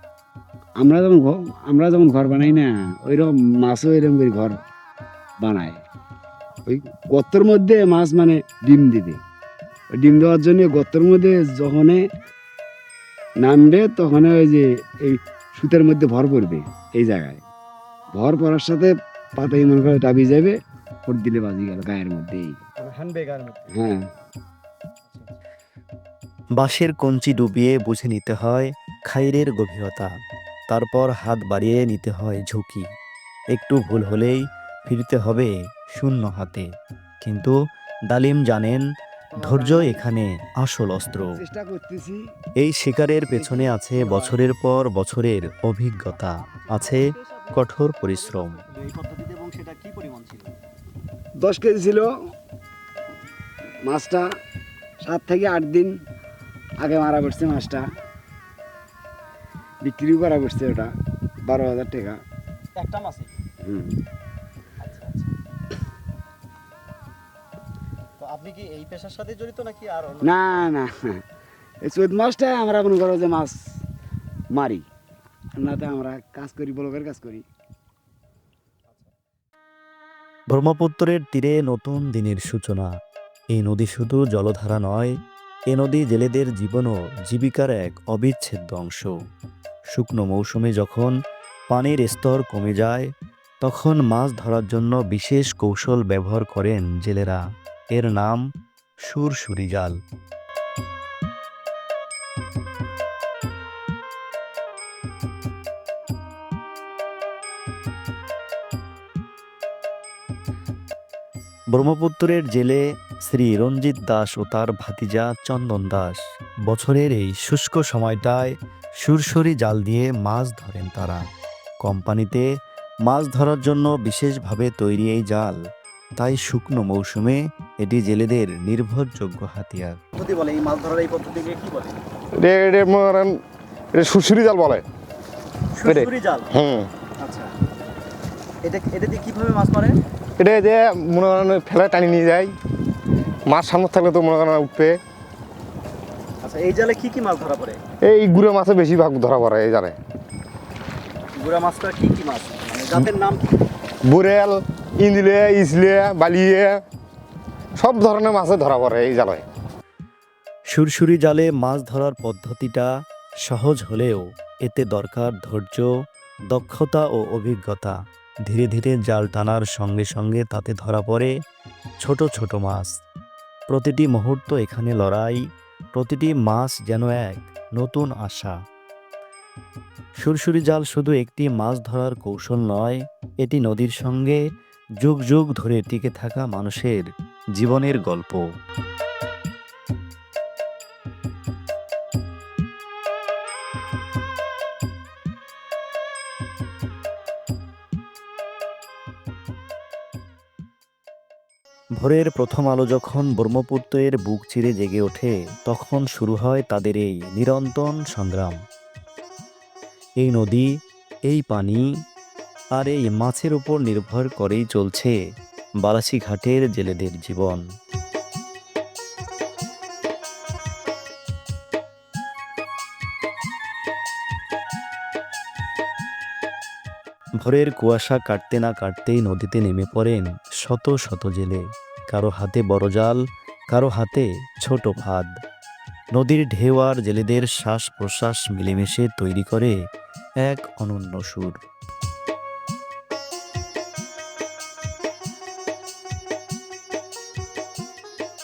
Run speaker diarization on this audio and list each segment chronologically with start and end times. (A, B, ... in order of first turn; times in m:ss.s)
0:00.8-0:04.6 A
0:05.4-0:05.8 A
0:06.7-0:09.2 A
0:09.9-0:12.0 A
0:13.4-0:17.4 A
0:18.1-0:22.6 A
0:22.8-0:23.7 B
0:23.7-0:24.1 A
0:25.1-0:25.4 B
0:26.6-0:30.1 C
0:30.7-0:32.9 C
0:33.5-0:36.7 C
0:37.2-0:37.6 C
0:38.1-0:38.8 C
0:39.4-0:40.0 A
0:39.5-0:41.4 C
0:41.3-0:42.2 A
0:42.6-0:48.5 C
0:43.3-0:44.4 A
0:46.5-0:47.5 B
0:48.6-0:50.5 B
0:51.4-0:52.1 A
0:53.8-0:54.3 A
0:55.0-0:55.9 A
0:56.8-0:57.9 A
0:59.8-1:00.9 A
1:01.4-1:02.2 A
1:02.8-1:03.3 B
1:03.6-1:04.0 A
1:04.8-1:05.3 B
1:08.2-1:10.7 B
1:10.2-1:11.2 A
1:11.8-1:13.8 A
1:14.5-1:14.8 A
1:15.6-1:17.4 A
1:20.5-1:22.9 C
1:23.5-1:25.1 C
1:25.7-1:29.0 C
1:29.9-1:31.1 C
1:31.7-1:33.0 C
1:33.6-1:37.4 C
1:38.0-1:38.3 C
1:39.1-1:39.9 C
1:51.7-1:52.8 C
1:53.3-1:56.2 C
1:56.7-1:58.4 C
1:59.0-2:01.2 C
2:01.8-2:02.4 C
2:03.1-2:05.6 C
2:06.2-2:10.0 C
2:10.2-2:12.0 B
2:12.4-2:13.4 D
2:13.9-2:14.8 D
2:15.8-2:16.4 B
2:15.9-2:16.9 D
2:17.2-2:17.5 B
2:18.6-2:20.0 B
2:20.4-2:22.6 D
2:23.5-2:25.0 D
2:26.4-2:27.8 B
2:28.0-2:30.0 D
2:31.4-2:33.4 B
2:34.1-2:36.8 D
2:37.8-2:39.5 D
2:40.7-2:42.9 C
2:43.4-2:45.9 C
2:46.5-2:47.9 C
2:48.5-2:51.3 C
2:52.0-2:52.9 C
2:53.7-2:55.4 C
2:56.0-2:58.5 C
3:00.2-3:04.4 C
3:05.0-3:07.0 C
3:07.6-3:08.3 C
3:22.0-3:28.6 C
3:30.2-3:30.7 C
3:31.3-3:31.8 C
3:32.8-3:35.1 C
3:35.8-3:37.6 C
3:47.4-3:51.6 C
3:52.1-3:53.2 C
3:53.7-3:55.3 C
3:56.2-3:59.7 C
4:00.4-4:01.5 C